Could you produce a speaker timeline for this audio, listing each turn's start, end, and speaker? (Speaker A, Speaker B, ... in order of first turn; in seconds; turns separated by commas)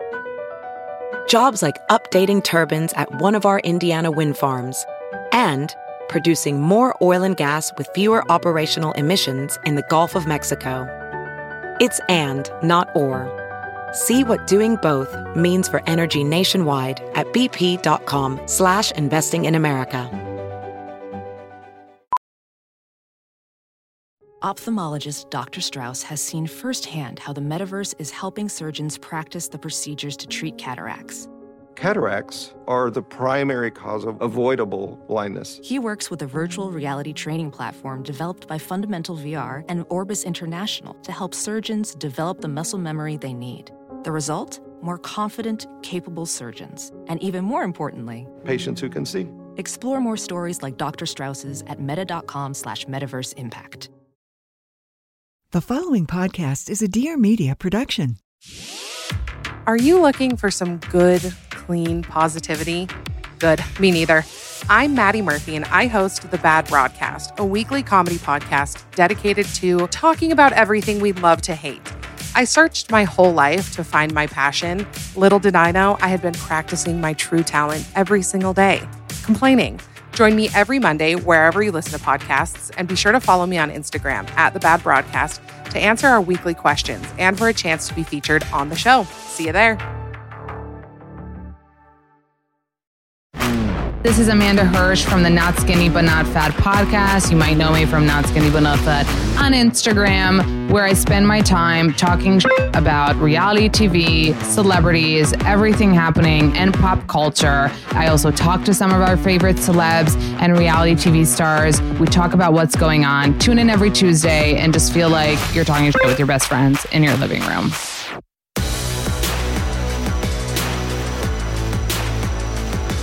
Speaker A: 1.3-10.9, Speaker A: 11.8-13.3, Speaker A: 13.9-20.1, Speaker B: 24.4-31.3, Speaker C: 31.8-35.6, Speaker B: 35.6-48.3, Speaker C: 48.4-49.4, Speaker B: 49.6-53.9, Speaker D: 55.5-58.2, Speaker E: 59.7-89.8, Speaker F: 94.0-117.8